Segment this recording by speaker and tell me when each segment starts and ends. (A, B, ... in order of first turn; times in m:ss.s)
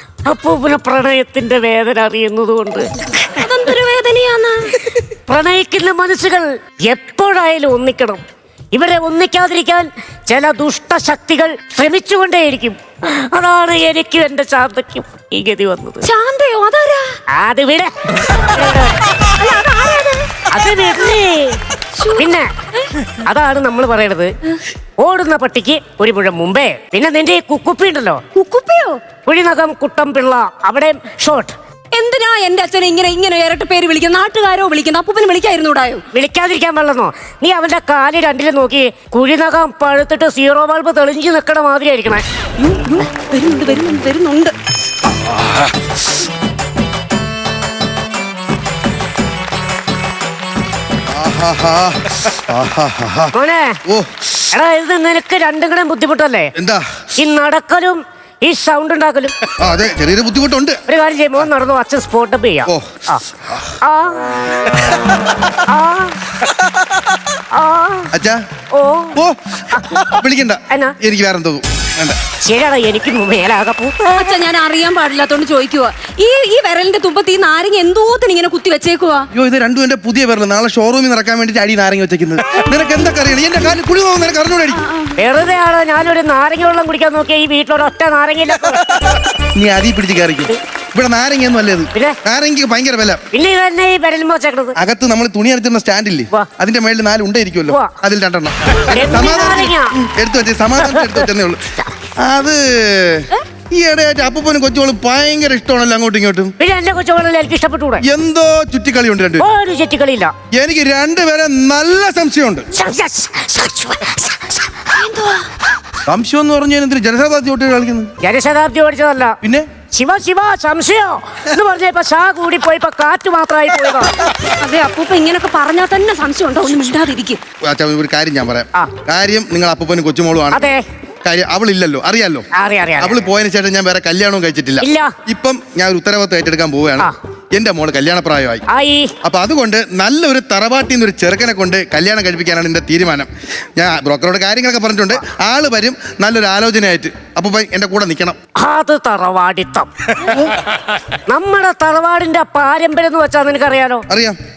0:00.3-0:03.4 A
0:03.4-0:04.7 B
0:05.0-0:08.2 A
0:08.7-0:16.1 A
0:16.0-0:17.0 B
0:17.3-0:19.2 A
0:19.4-0:20.4 B
0:20.5-0:21.6 A
0:22.0-0:22.9 B
0:22.2-0:24.3 A
0:25.0-0:28.2 A
0:28.4-0:29.0 B
0:29.2-0:31.5 A
0:31.9-0:36.0 B
0:36.1-0:42.2 A
0:42.6-0:44.5 B
0:45.1-0:45.7 C
0:51.1-0:53.3 C
0:53.3-0:53.8 A
0:54.4-0:56.5 A
0:56.6-0:56.8 C
0:57.2-0:59.4 A
0:59.6-1:00.8 C
1:00.9-1:03.2 A
1:03.8-1:04.7 A
1:05.5-1:06.4 A
1:07.5-1:08.1 A
1:08.1-1:08.4 C
1:08.7-1:10.2 A
1:09.1-1:12.2 C
1:12.4-1:14.3 A
1:14.2-1:19.2 B
1:19.3-1:24.8 C
1:24.8-1:25.1 B
1:25.2-1:29.1 A
1:29.3-1:33.2 C
1:33.3-1:34.8 A
1:34.8-1:41.6 C
1:37.7-1:37.9 A
1:38.8-1:39.9 A
1:40.8-1:41.9 A
1:42.2-1:46.5 C
1:46.6-1:48.0 A
1:48.0-1:49.5 C
1:49.4-1:50.3 A
1:50.5-1:52.6 C
1:52.7-1:54.9 A
1:55.0-1:55.5 B
1:56.1-1:58.1 C
1:58.2-1:59.4 A
1:59.4-1:59.7 C
1:59.9-2:04.3 A
2:04.6-2:07.4 B
2:07.6-2:10.7 C
2:10.5-2:10.8 A
2:11.2-2:12.5 C
2:12.6-2:13.2 A
2:13.0-2:18.6 C
2:14.8-2:15.1 A
2:18.7-2:19.1 A
2:19.2-2:28.4 C
2:28.6-2:30.5 A
2:31.3-2:34.0 A
2:34.1-2:34.4 C